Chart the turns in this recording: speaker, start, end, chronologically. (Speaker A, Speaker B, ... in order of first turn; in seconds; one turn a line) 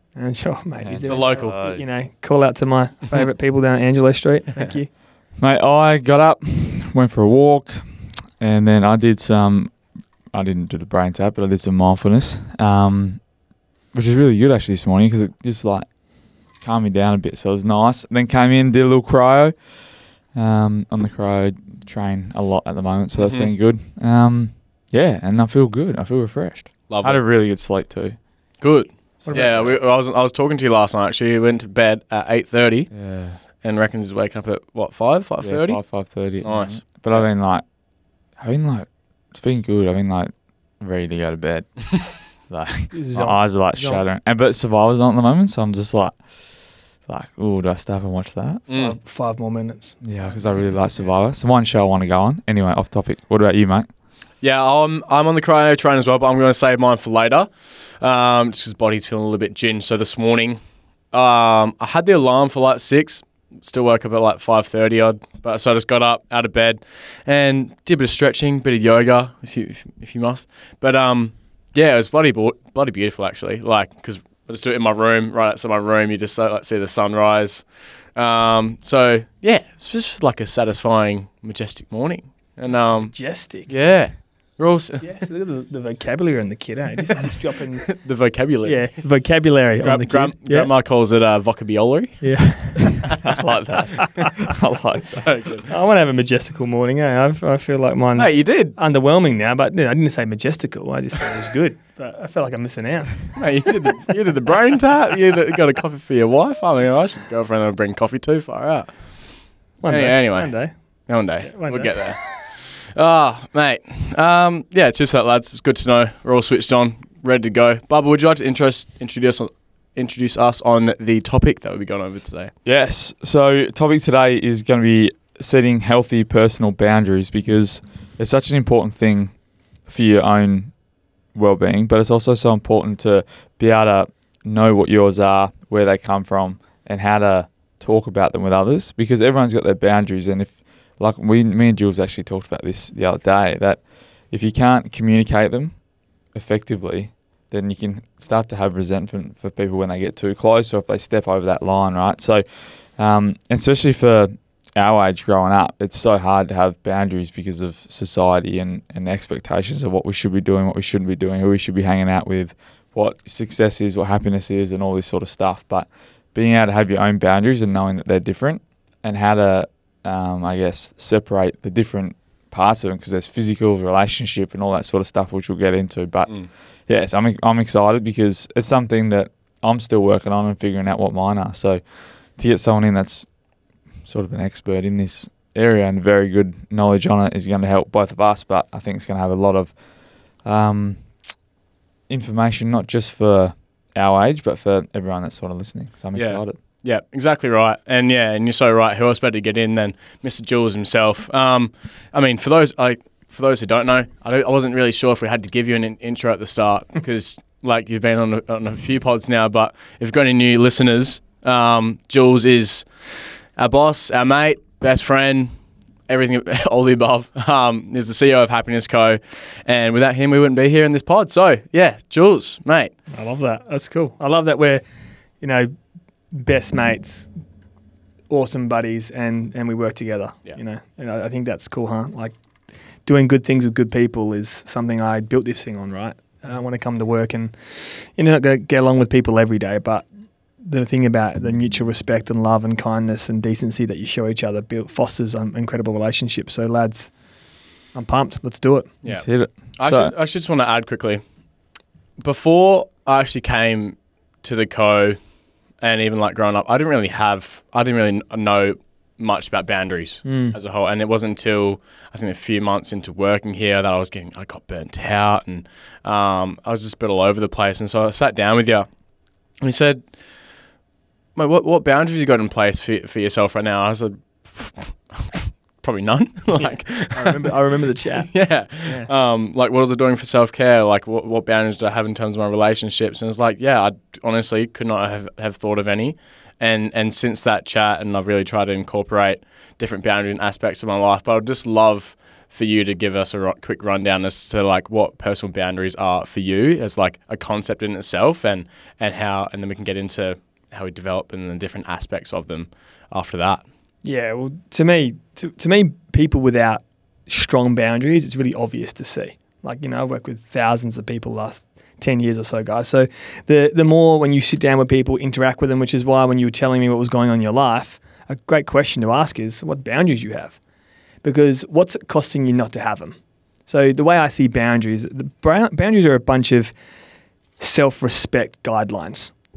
Speaker A: 0.1-4.9
Speaker B: 0.8-1.8
Speaker C: 1.0-1.7
Speaker B: 5.4-13.3
Speaker B: 13.9-16.0
Speaker B: 16.5-19.6
Speaker B: 20.3-28.1
Speaker C: 23.2-23.5
Speaker C: 26.9-27.2
Speaker C: 28.6-35.8
Speaker A: 29.2-29.7
Speaker B: 29.2-29.7
Speaker B: 32.9-33.4
Speaker B: 35.4-37.6
Speaker C: 36.4-37.3
Speaker B: 38.4-48.7
Speaker A: 42.9-44.0
Speaker C: 48.7-49.0
Speaker A: 48.7-50.0
Speaker B: 50.0-53.9
Speaker C: 54.4-60.6
Speaker C: 61.1-85.1
Speaker A: 83.1-83.7
Speaker A: 85.0-88.0
Speaker C: 87.9-89.0
Speaker A: 88.6-90.7
Speaker C: 89.8-93.4
Speaker A: 92.2-93.1
Speaker B: 93.2-95.3
Speaker C: 95.1-95.7
Speaker A: 95.7-103.7
Speaker C: 98.2-98.7
Speaker C: 103.3-122.5
Speaker A: 109.8-110.7
Speaker A: 111.4-112.3
Speaker B: 122.6-129.3
Speaker B: 129.8-130.7
Speaker B: 131.3-145.8
Speaker B: 146.3-183.3
Speaker B: 184.0-189.8
Speaker B: 190.3-191.1
Speaker B: 192.1-196.6
Speaker C: 196.1-215.5
Speaker C: 216.1-222.9
Speaker A: 223.1-224.8
Speaker A: 225.4-225.7
Speaker A: 226.3-227.3
Speaker A: 228.3-232.3
Speaker A: 233.1-240.1
Speaker A: 240.6-247.1
Speaker A: 247.9-248.9
Speaker C: 249.0-251.2
Speaker B: 249.1-250.1
Speaker C: 252.2-255.2
Speaker C: 255.8-268.9
Speaker A: 260.2-260.6
Speaker C: 269.6-270.1
Speaker C: 271.4-277.5
Speaker A: 276.6-278.3
Speaker C: 278.3-303.6
Speaker A: 278.8-279.1
Speaker A: 304.0-320.6
Speaker A: 321.2-326.7
Speaker A: 327.6-329.3